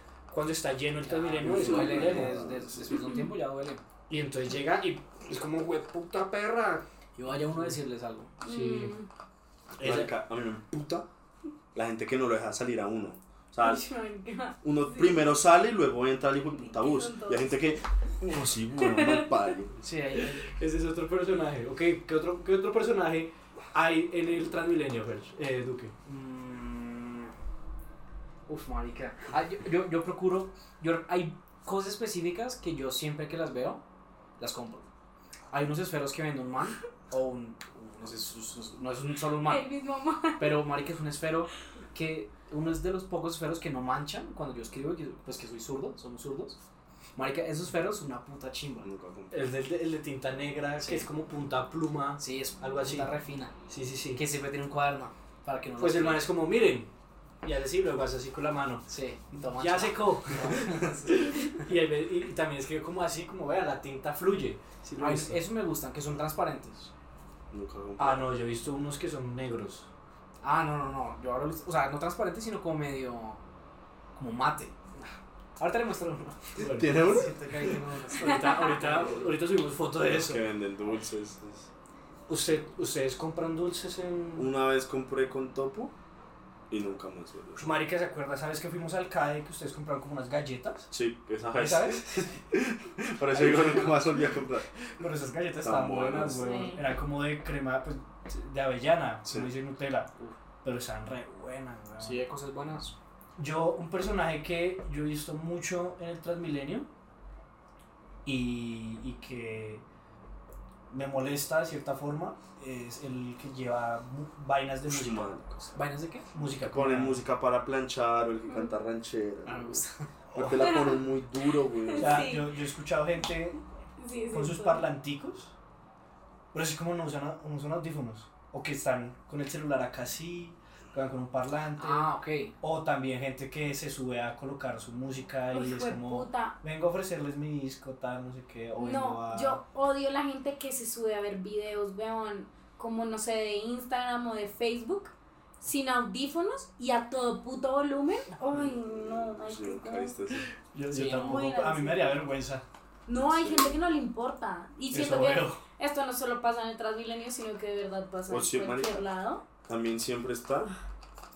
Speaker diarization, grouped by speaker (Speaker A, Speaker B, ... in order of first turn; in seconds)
Speaker A: 0.3-2.4, 4.1-6.8, 7.4-7.8, 8.4-8.9, 9.8-10.1, 20.5-25.9, 49.3-53.1, 53.7-54.2, 55.8-56.9, 57.4-58.9, 59.6-65.4, 68.0-69.9, 76.6-77.0, 78.2-80.4, 82.3-84.5, 87.6-90.9, 91.5-92.0, 93.4-93.8, 95.0-100.1, 100.6-102.2, 103.4-106.9, 108.2-109.8, 110.9-115.7, 116.3-117.2, 120.3-120.7, 122.0-123.6, 124.3-125.5, 126.5-139.6, 150.7-152.6, 154.9-155.6
Speaker B: 1.0-3.8, 7.2-8.3, 19.8-20.5, 26.1-27.3, 28.5-33.8, 34.4-34.9, 35.5-39.6, 40.4-46.6, 47.2-48.9, 50.8-51.1, 52.2-53.5, 54.1-56.3, 58.9-61.6, 65.0-66.9, 70.4-73.4, 74.2-75.0, 75.6-79.3, 102.0-103.0, 115.7-116.3, 119.5-120.1, 131.8-132.5, 150.9-151.5
Speaker C: 1.4-2.9, 9.8-11.1, 11.7-13.8, 14.6-19.8, 48.8-49.5, 67.5-68.3, 76.6-77.8, 80.0-81.7, 84.4-85.9, 86.7-87.8, 90.9-94.7, 95.6-96.6, 114.9-115.6, 116.7-119.8, 120.3-122.3, 148.5-150.5, 153.2-153.8, 158.3-159.0, 159.7-160.7
Speaker D: 8.4-9.1, 13.6-15.3, 16.5-17.5, 18.8-19.4, 39.5-40.5, 96.3-96.8, 120.6-121.0, 121.8-122.5, 124.0-124.9, 135.5-136.6, 138.8-150.1, 151.1-152.2, 153.1-159.4